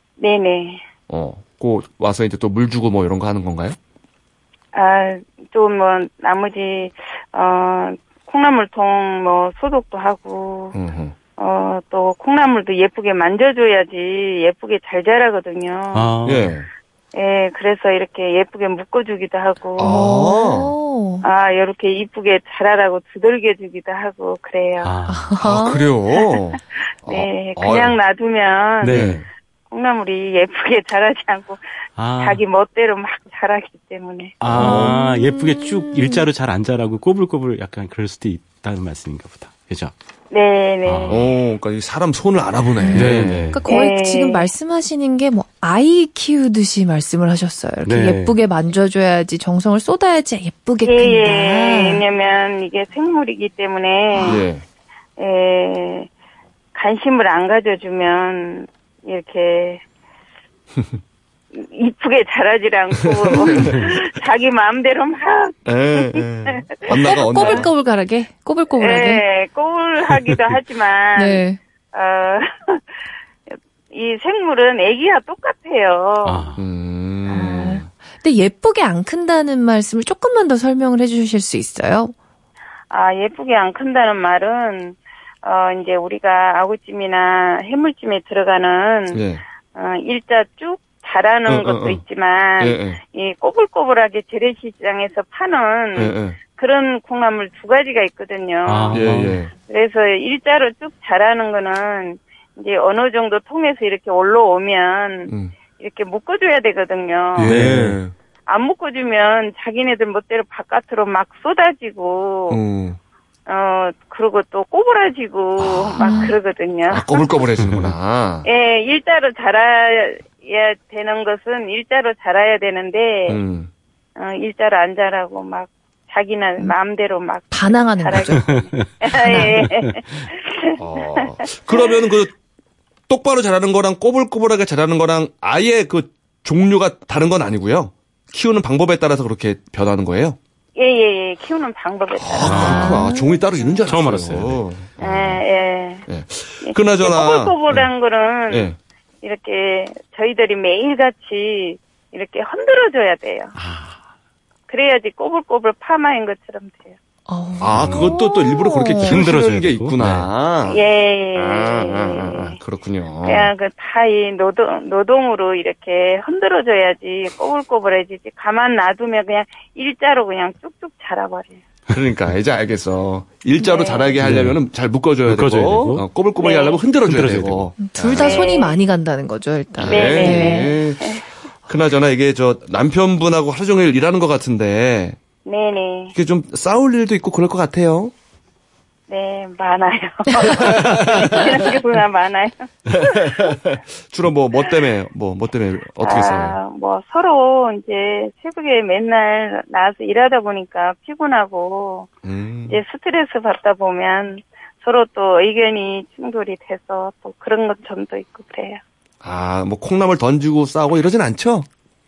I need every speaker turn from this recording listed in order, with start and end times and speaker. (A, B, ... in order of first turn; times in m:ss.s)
0:00.2-0:00.8 A
0:01.1-0:03.8 B
0:04.7-0:10.7 A
0:10.7-0:11.2 B
0:11.4-0:16.1 A
0:15.9-0:16.5 C
0:16.2-0:16.7 B
0:17.1-0:20.0 A
0:19.8-0:20.7 B
0:19.8-0:21.2 D
0:21.2-0:24.9 A
0:24.8-0:25.3 C
0:25.1-0:25.9 D
0:25.4-0:28.0 B
0:27.1-0:29.0 A
0:28.8-0:29.2 C
0:28.8-0:29.2 B
0:29.7-0:31.6 A
0:32.0-0:32.4 C
0:32.2-0:34.4 A
0:34.4-0:39.9 C
0:34.5-0:35.0 B
0:34.5-0:36.3 D
0:40.3-0:41.2 A
0:40.8-0:41.2 C
0:41.1-0:43.5 B
0:42.8-0:52.0 D
0:42.9-0:43.6 C
0:43.7-0:44.5 A
0:47.8-0:48.3 C
0:50.8-0:54.4 A
0:54.2-0:54.6 B
0:55.2-0:56.1 A
0:56.7-0:59.8 A
1:01.5-1:07.6 A
1:03.2-1:03.9 B
1:05.6-1:07.7 B
1:06.9-1:09.2 D
1:08.8-1:12.8 A
1:11.2-1:11.6 D
1:13.9-1:16.5 A
1:16.2-1:16.6 C
1:16.6-1:17.9 B
1:17.3-1:22.1 D
1:22.9-1:29.2 A
1:29.1-1:29.4 B
1:29.7-1:39.0 A
1:31.5-1:32.0 B
1:32.6-1:33.0 B
1:35.9-1:36.4 B
1:38.6-1:39.4 C
1:38.9-1:39.5 B
1:39.6-1:47.6 A
1:47.4-1:48.1 B
1:47.4-1:48.0 C
1:48.5-1:52.6 A
1:52.5-1:53.0 B
1:53.5-1:57.2 A
1:55.6-1:56.3 B
1:56.0-1:56.3 D
1:56.9-1:58.4 B
1:58.4-2:03.4 A
2:03.3-2:03.7 B
2:04.2-2:11.9 A
2:07.5-2:08.5 D
2:08.6-2:08.9 C
2:09.2-2:09.6 D
2:10.8-2:12.3 B
2:13.1-2:20.4 B
2:20.8-2:23.0 A
2:22.2-2:25.4 B
2:22.4-2:23.1 C
2:22.6-2:23.4 D
2:23.8-2:24.6 C
2:25.0-2:26.1 A
2:26.1-2:27.9 B
2:26.6-2:28.7 A
2:28.5-2:28.8 B
2:29.2-2:33.5 A
2:33.6-2:33.9 C
2:34.7-2:37.0 A
2:37.3-2:39.2 D
2:37.6-2:40.8 B
2:37.8-2:38.1 C
2:39.0-2:40.3 C
2:40.6-2:42.6 A
2:41.3-2:43.5 B
2:43.2-2:51.6 A
2:51.9-2:58.5 B
2:53.6-2:54.2 A
2:54.2-2:54.6 C
2:55.2-2:56.0 C
2:56.4-2:56.8 A
2:57.0-2:57.7 C
2:57.8-3:00.7 D
2:58.1-2:58.8 A
2:59.8-3:01.1 B
2:59.8-3:01.2 A
3:01.7-3:05.2 B
3:05.4-3:06.1 A
3:06.1-3:08.1 B
3:09.1-3:13.6 A
3:10.6-3:11.5 B
3:12.9-3:16.6 B
3:16.0-3:22.1 A
3:22.2-3:22.8 B
3:22.7-3:28.8 A
3:29.2-3:31.7 B